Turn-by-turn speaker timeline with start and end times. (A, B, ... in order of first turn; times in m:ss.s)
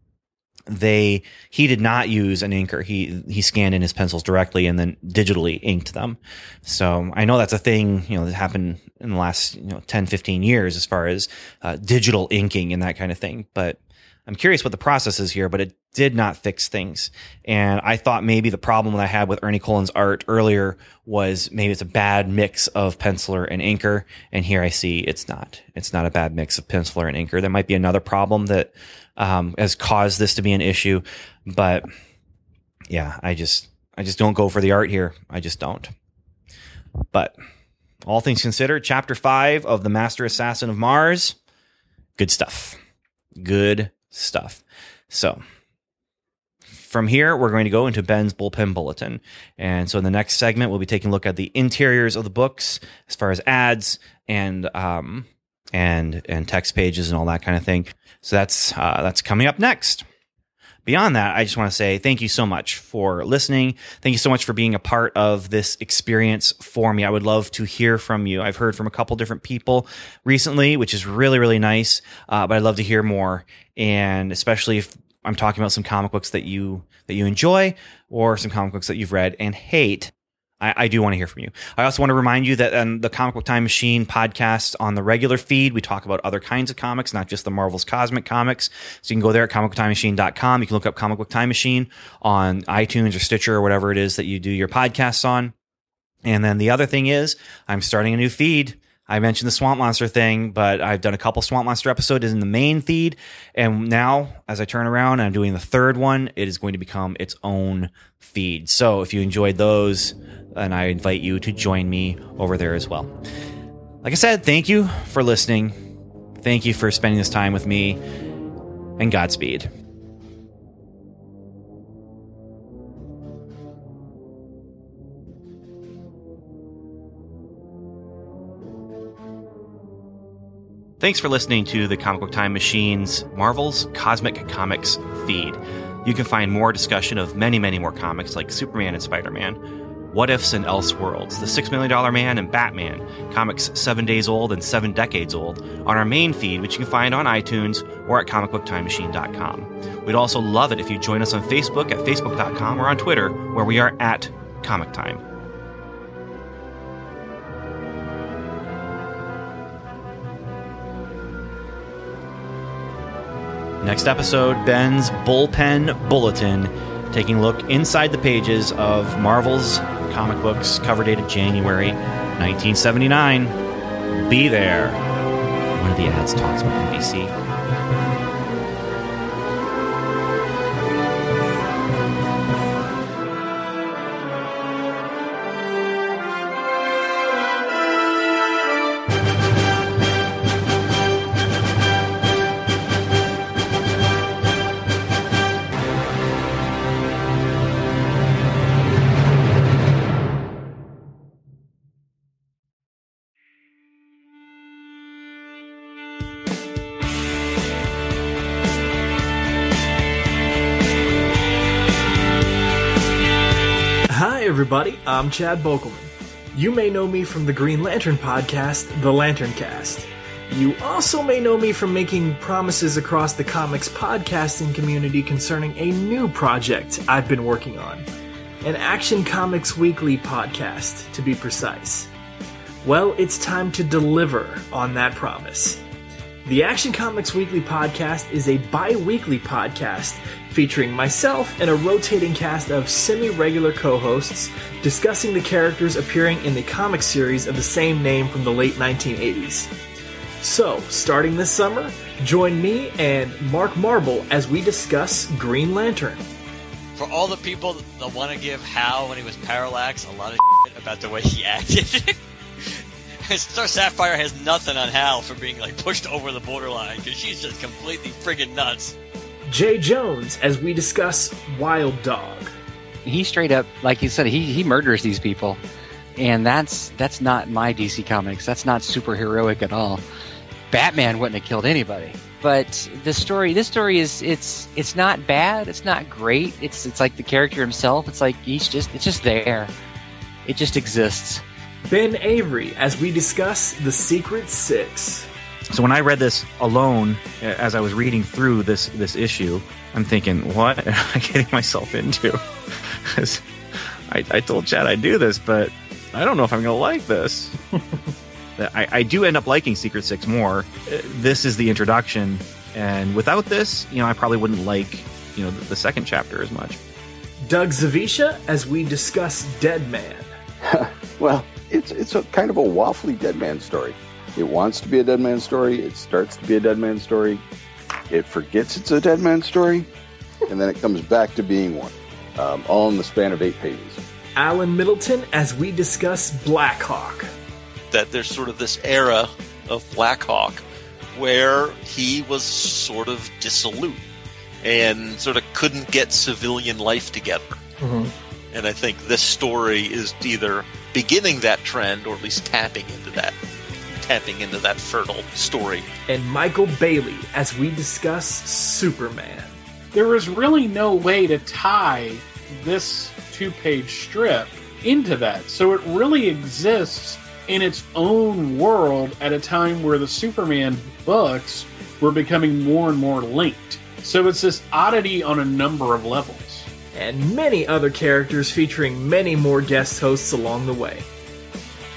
0:00.7-0:31.9 A
0:32.9-0:35.9 A
0:38.0-0:41.4 A
0:42.2-0:42.8 A
0:43.4-0:45.4 A
0:46.8-1:00.0 A
1:00.8-1:35.5 A
1:36.2-1:53.1 A
1:54.0-1:55.8 A
1:56.4-1:58.0 A
1:59.0-1:59.7 A
2:11.0-2:19.6 A
2:20.1-2:35.2 A
2:43.8-2:53.6 A
2:54.1-2:55.0 A
2:55.7-2:57.3 A
3:34.1-3:48.0 B
3:48.6-3:52.1 B
3:52.8-3:55.8 B
3:56.4-4:09.7 B
4:10.4-4:16.3 B
4:17.0-4:29.0 C
4:29.5-4:32.5 B
4:33.0-4:35.6 D
4:36.2-4:40.0 D
4:40.7-4:49.7 D
4:50.4-4:51.4 D
4:51.9-4:55.3 B
4:55.7-5:03.4 A
5:04.1-5:07.6 A
5:08.6-5:16.8 A
5:17.4-5:20.3 B
5:20.6-5:27.4 E
5:28.1-5:29.9 E
5:30.5-5:34.0 E
5:34.4-5:37.3 B
5:37.9-5:44.0 F
5:44.6-5:47.6 F
5:48.5-5:53.4 F
5:54.0-5:55.9 F
5:56.1-5:59.6 B
5:59.9-6:16.7 G
6:16.9-6:21.1 B